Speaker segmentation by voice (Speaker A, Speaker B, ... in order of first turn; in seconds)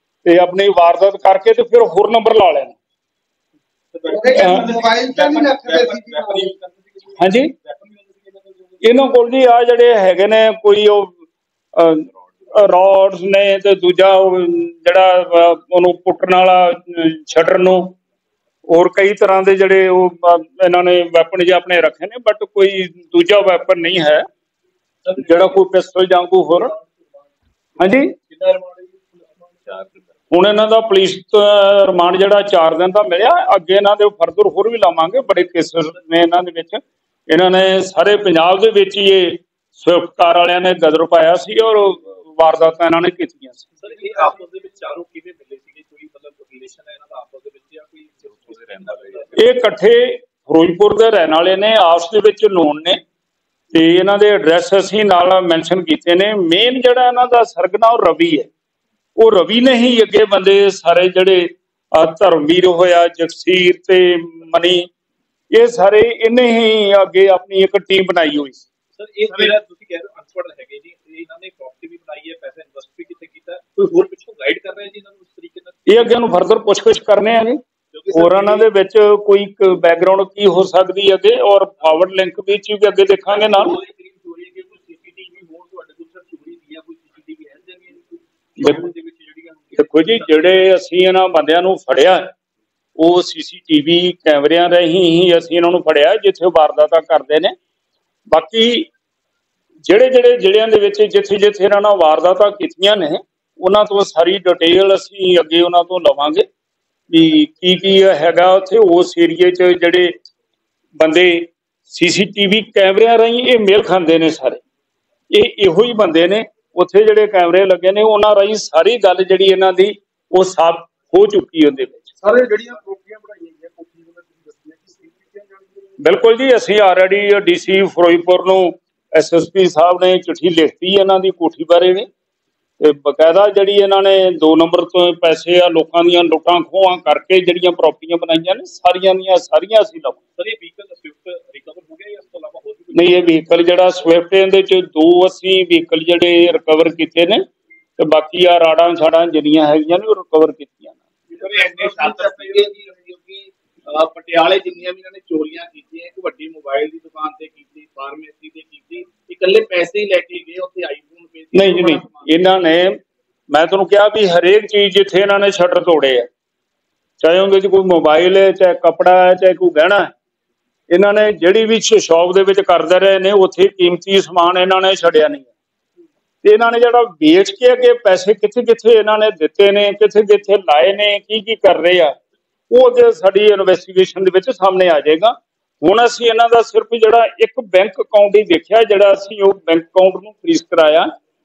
Speaker A: 0.2-2.8, 4.3-4.7, 7.2-7.5, 8.8-11.1, 11.8-17.9, 18.7-24.2, 25.2-26.8, 27.8-28.1, 30.3-43.7, 49.4-53.0, 53.7-58.5, 59.2-64.9, 65.5-68.6, 75.9-83.8, 89.8-92.3, 93.0-97.5, 98.3-98.9, 99.9-106.5, 107.1-110.1, 111.0-114.6, 115.3-122.1, 126.0-132.1, 132.8-140.2, 142.9-147.4, 148.0-151.0, 161.5-163.0, 163.5-166.3, 167.2-170.1, 170.9-175.5, 176.4-182.2, 182.7-191.1
Speaker B: 4.0-8.8, 25.1-25.6, 26.6-27.3, 27.9-29.9, 43.8-49.4, 69.0-76.0, 77.9-78.7, 83.3-90.5, 140.4-143.4, 151.3-162.3
Speaker C: 4.1-6.5, 122.2-125.9